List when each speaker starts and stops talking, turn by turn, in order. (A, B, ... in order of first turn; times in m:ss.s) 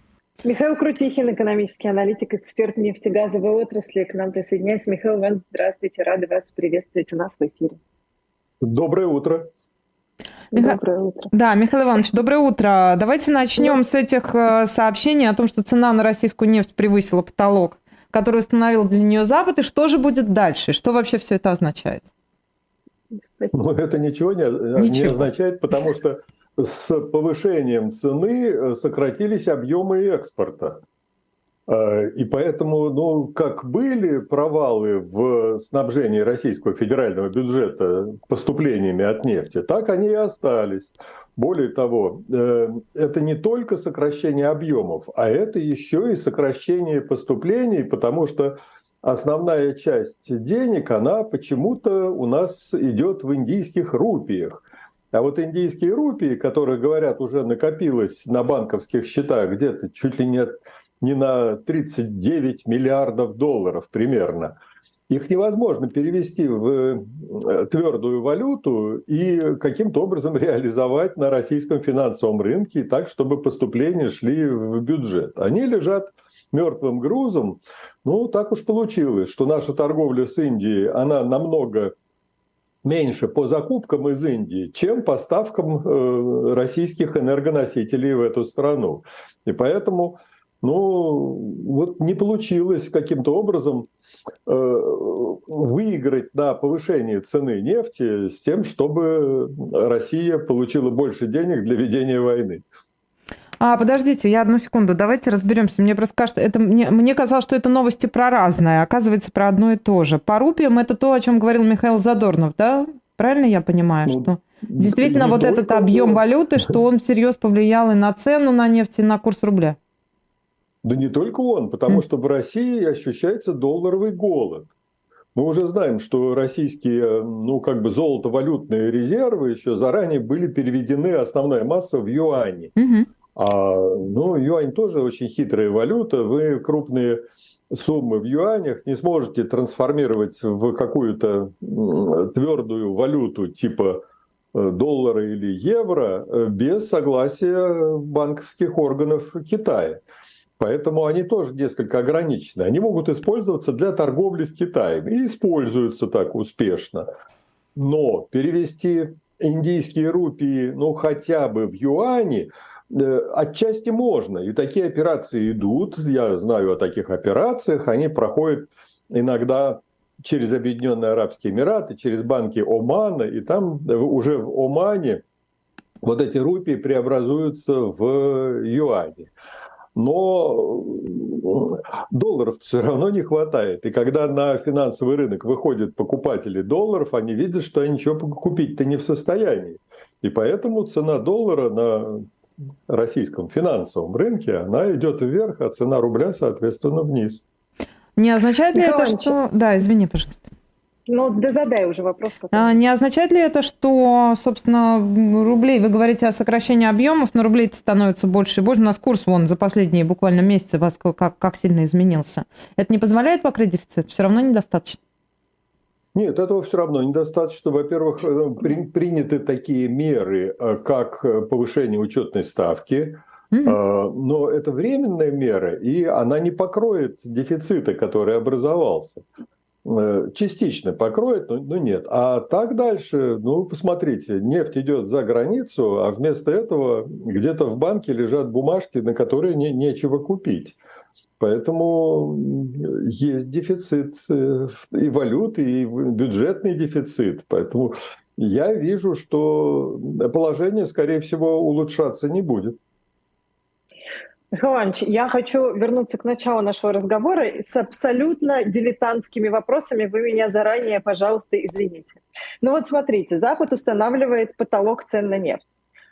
0:00.4-0:07.8 A
0:08.6-0:09.5 B
0:10.5-0:11.3 A
0:11.3-0:22.0 C
0:23.5-0:30.8 B
0:24.8-0:25.2 C
0:31.7-1:04.6 B
1:05.1-1:21.9 B
1:22.8-1:33.9 B
1:34.5-1:42.6 B
1:43.6-1:59.8 C
1:54.0-1:56.2 B
2:00.8-2:04.7 B
2:05.3-2:12.7 B
2:12.8-2:13.1 C
2:13.3-2:24.0 B
2:24.5-2:30.0 B
2:30.6-2:37.1 B
2:37.7-2:55.2 B
2:56.0-2:59.3 B
3:00.0-3:12.3 B
3:12.9-3:17.4 B
3:18.2-3:20.5 C
3:18.7-3:19.4 A
3:21.1-3:22.8 A
3:22.5-3:35.0 C
3:36.1-3:49.2 B
3:43.5-3:43.8 C
3:49.8-4:00.8 B
4:01.4-4:12.8 B
4:14.6-4:25.7 A